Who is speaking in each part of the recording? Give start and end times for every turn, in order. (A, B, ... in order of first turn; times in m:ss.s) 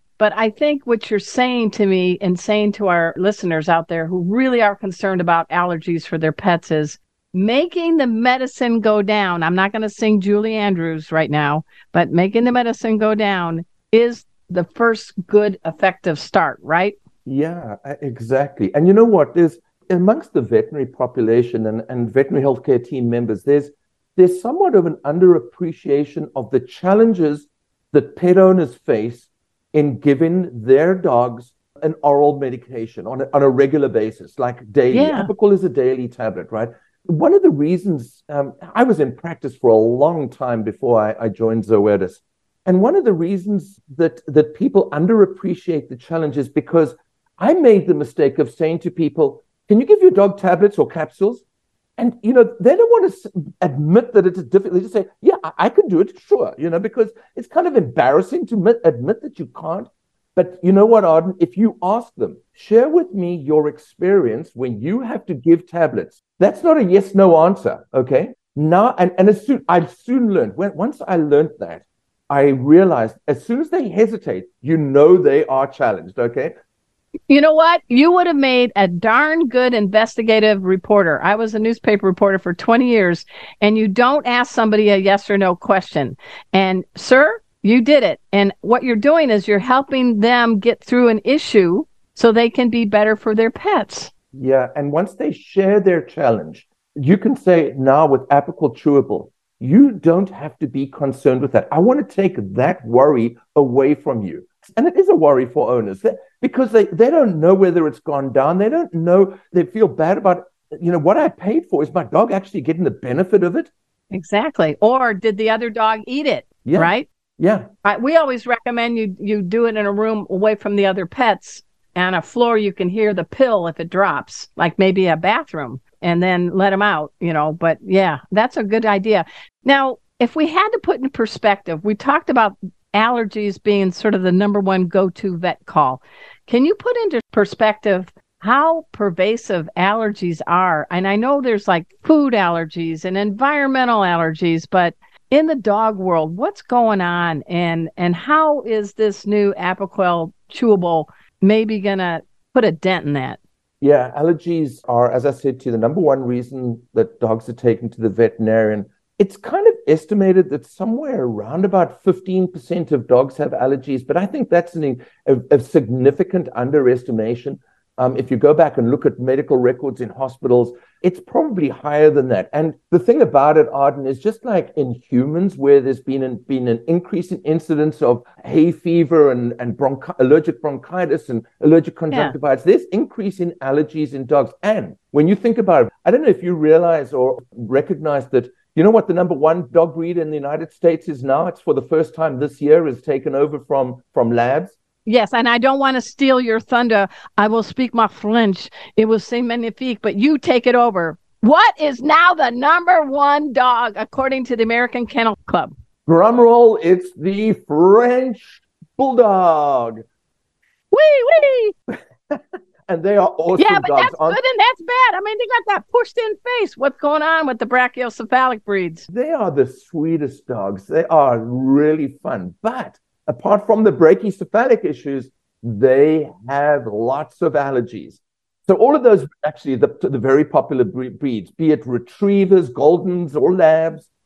0:00.2-0:17.0 A
0:17.2-0:51.4 B
0:34.9-0:35.3 A
0:52.0-1:16.5 B
1:17.3-1:34.1 A
1:34.3-1:53.7 B
1:54.1-1:57.1 A
1:56.6-1:57.7 B
1:57.8-2:33.4 A
2:33.8-3:14.8 B
3:15.0-3:25.7 A
3:26.0-3:30.0 B
3:30.9-3:31.7 A
3:31.9-3:34.4 B
3:33.6-3:39.1 A
3:39.1-3:54.1 B